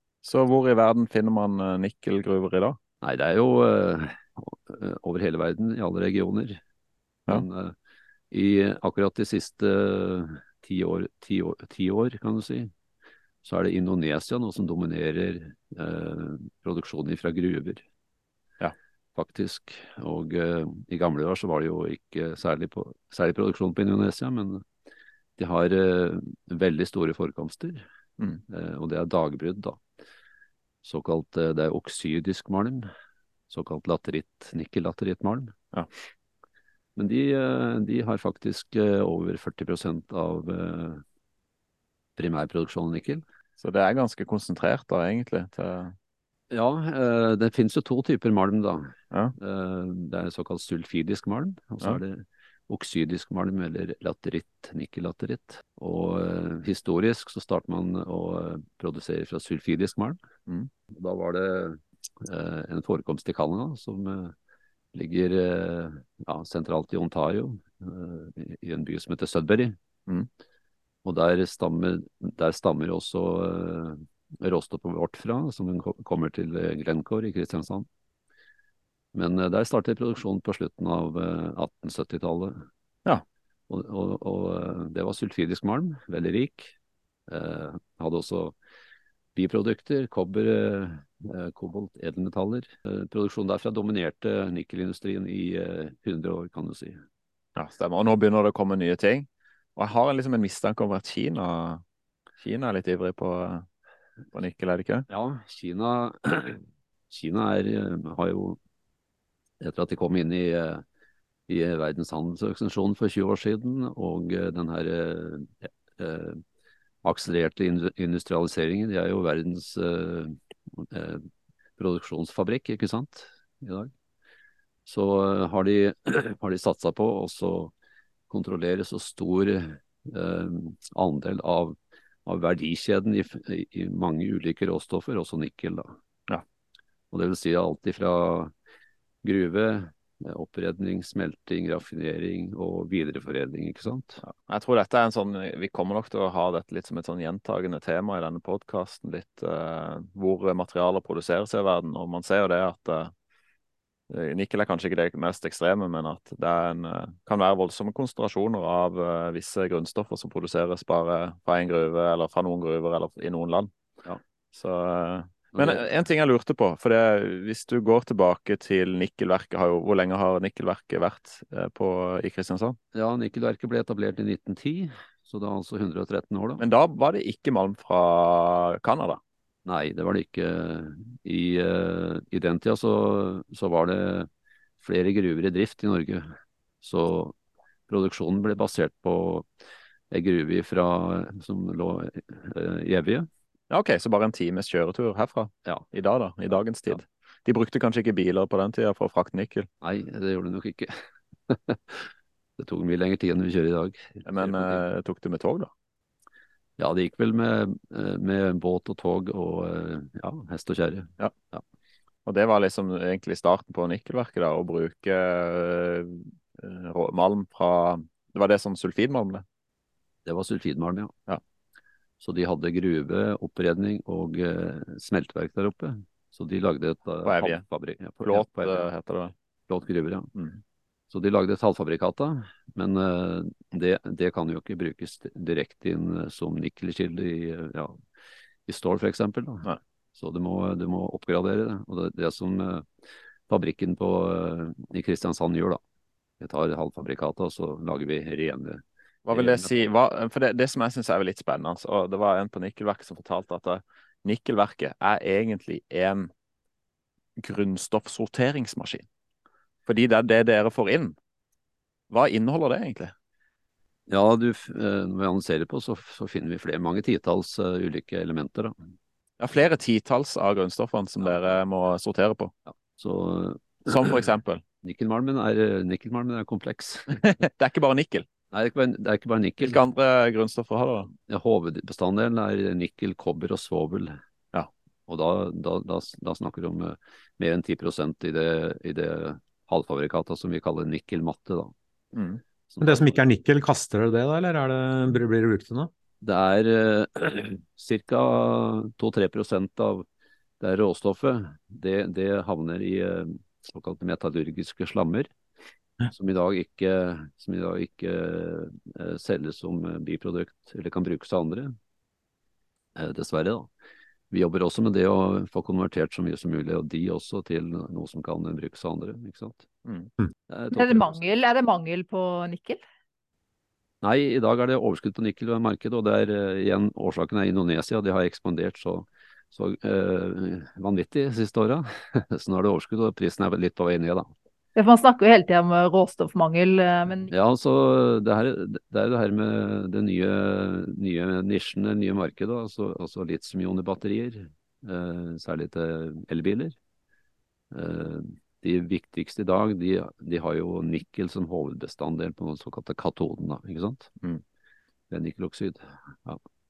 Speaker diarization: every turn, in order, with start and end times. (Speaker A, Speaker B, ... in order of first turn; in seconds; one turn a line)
Speaker A: 0.2-2.8
Speaker B: 3.0-6.6
Speaker B: 7.3-7.7
Speaker B: 8.3-12.7
Speaker B: 13.4-17.8
Speaker B: 19.1-24.6
Speaker B: 25.4-27.8
Speaker B: 28.5-29.8
Speaker B: 30.8-32.9
Speaker B: 33.5-35.5
Speaker B: 37.0-41.0
Speaker B: 42.2-43.2
Speaker A: 43.6-45.9
Speaker B: 46.5-60.2
Speaker B: 60.9-64.3
Speaker B: 64.9-69.8
Speaker B: 71.0-77.8
Speaker B: 79.1-82.6
Speaker B: 83.7-86.7
Speaker B: 87.3-88.5
Speaker B: 89.3-97.0
Speaker A: 97.5-101.8
Speaker A: 102.4-103.6
Speaker A: 104.3-105.0
Speaker B: 105.1-108.6
Speaker B: 109.6-110.8
Speaker B: 111.5-116.4
Speaker B: 117.0-121.3
Speaker B: 121.8-123.9
Speaker B: 124.8-127.7
Speaker B: 128.3-135.9
Speaker B: 137.1-138.5
Speaker B: 139.2-144.2
Speaker A: 144.2-153.1
Speaker A: 154.1-163.7
Speaker A: 164.5-172.8
Speaker B: 165.5-165.8
Speaker B: 172.9-176.6
Speaker A: 176.6-179.2
Speaker B: 179.7-184.3
Speaker B: 184.8-186.3
Speaker B: 186.8-187.3
Speaker B: 187.9-189.5
Speaker B: 190.1-193.3
Speaker A: 193.7-199.7
Speaker B: 199.8-201.0
Speaker B: 201.5-204.8
Speaker A: 204.2-205.7
Speaker B: 206.8-211.6
Speaker A: 212.2-219.4
Speaker B: 220.2-221.1
Speaker B: 222.2-228.9
Speaker A: 227.2-227.6
Speaker A: 228.2-229.3
Speaker B: 229.7-230.3
Speaker B: 231.1-238.0
Speaker B: 238.7-242.9
Speaker B: 243.5-245.8
Speaker B: 246.4-249.8
Speaker A: 249.2-256.3
Speaker A: 257.4-259.1
Speaker A: 259.9-261.2
Speaker A: 262.1-263.1
Speaker B: 264.1-268.7
Speaker A: 269.4-272.5
Speaker B: 272.7-274.3
Speaker A: 273.9-274.6
Speaker B: 274.8-277.1
Speaker A: 277.2-278.2
Speaker B: 278.5-279.8
Speaker A: 279.6-281.1
Speaker B: 281.3-284.2
Speaker B: 285.1-291.7
Speaker A: 292.1-292.4
Speaker B: 292.7-293.1
Speaker C: 292.8-295.9
Speaker B: 296.2-300.0
Speaker B: 300.6-305.3
Speaker B: 306.1-311.7
Speaker B: 312.9-313.7
Speaker B: 314.3-319.6
Speaker B: 320.5-321.2
Speaker D: 320.7-322.8
Speaker B: 324.0-334.3
Speaker D: 334.8-337.3
Speaker B: 337.3-346.7
Speaker B: 347.7-354.1
Speaker B: 355.1-356.4